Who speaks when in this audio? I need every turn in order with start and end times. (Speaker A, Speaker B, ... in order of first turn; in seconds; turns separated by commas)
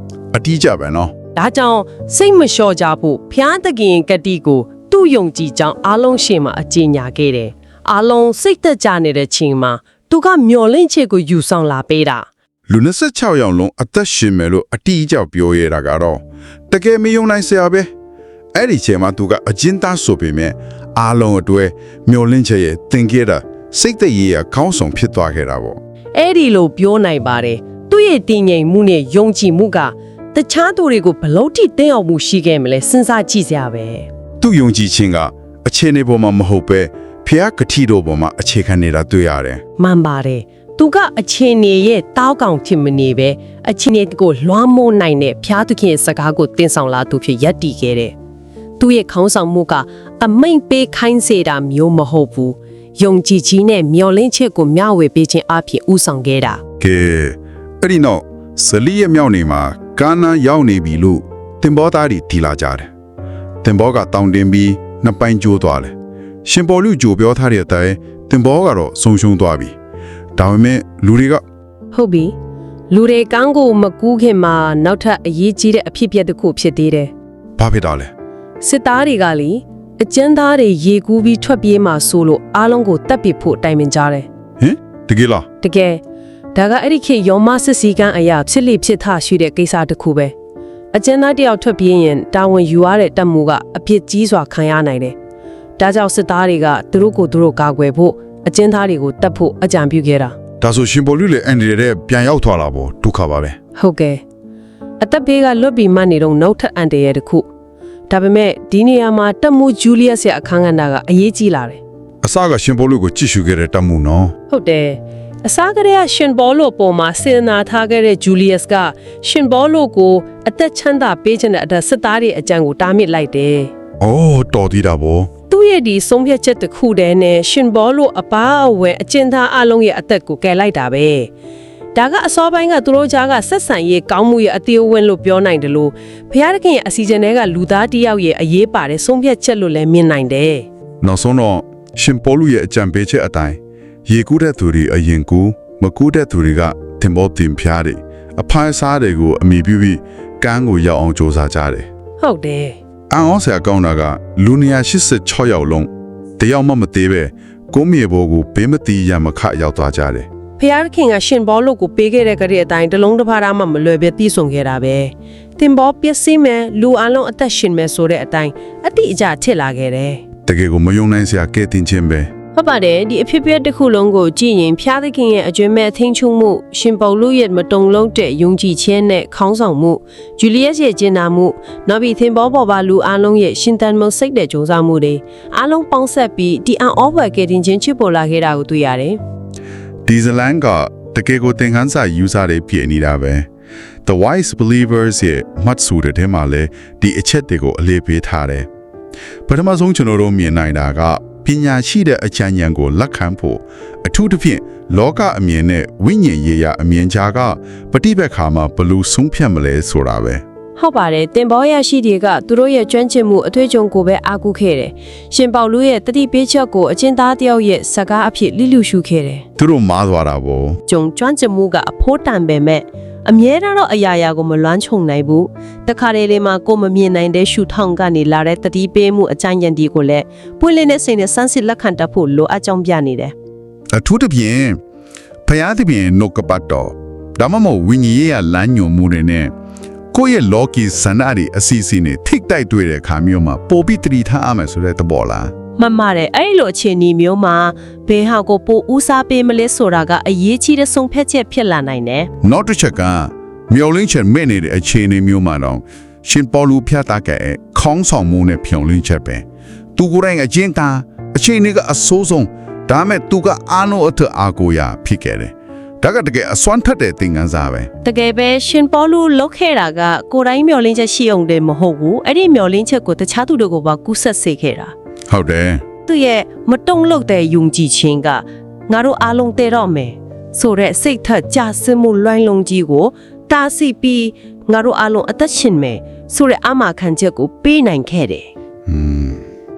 Speaker A: 0.3-1.1, Speaker B: 1.4-12.3, Speaker A: 12.7-17.9, Speaker A: 18.5-25.8, Speaker B: 26.1-34.1, Speaker A: 34.4-39.6, Speaker B: 39.8-48.1, Speaker B: 48.8-56.6, Speaker A: 56.8-62.9, Speaker A: 63.6-69.7, Speaker A: 70.4-71.4, Speaker B: 71.9-72.3, Speaker B: 72.9-77.1, Speaker A: 77.6-78.1, Speaker B: 78.6-84.3, Speaker A: 84.6-85.5, Speaker B: 85.6-86.0, Speaker B: 86.5-90.3, Speaker B: 90.9-95.2, Speaker B: 95.8-100.3, Speaker A: 100.6-103.6, Speaker B: 103.8-104.2, Speaker B: 105.0-107.5, Speaker B: 108.1-111.8, Speaker A: 112.2-114.3, Speaker B: 114.5-123.7, Speaker A: 124.0-125.3, Speaker B: 125.5-131.3, Speaker B: 131.9-140.7, Speaker A: 141.0-151.9, Speaker B: 152.2-152.8, Speaker A: 153.1-160.3, Speaker B: 160.6-170.2, Speaker A: 170.5-172.3, Speaker B: 172.6-189.2, Speaker A: 190.1-193.5, Speaker A: 194.1-198.7, Speaker A: 199.5-210.4, Speaker B: 210.8-219.4, Speaker A: 219.6-220.8, Speaker B: 220.9-233.3, Speaker A: 233.9-234.8, Speaker A: 235.5-239.5, Speaker A: 240.1-245.5, Speaker B: 245.8-252.3, Speaker A: 252.4-259.4, Speaker A: 260.0-267.9, Speaker B: 268.0-274.9, Speaker A: 275.3-275.8, Speaker B: 276.1-288.5, Speaker A: 288.9-289.4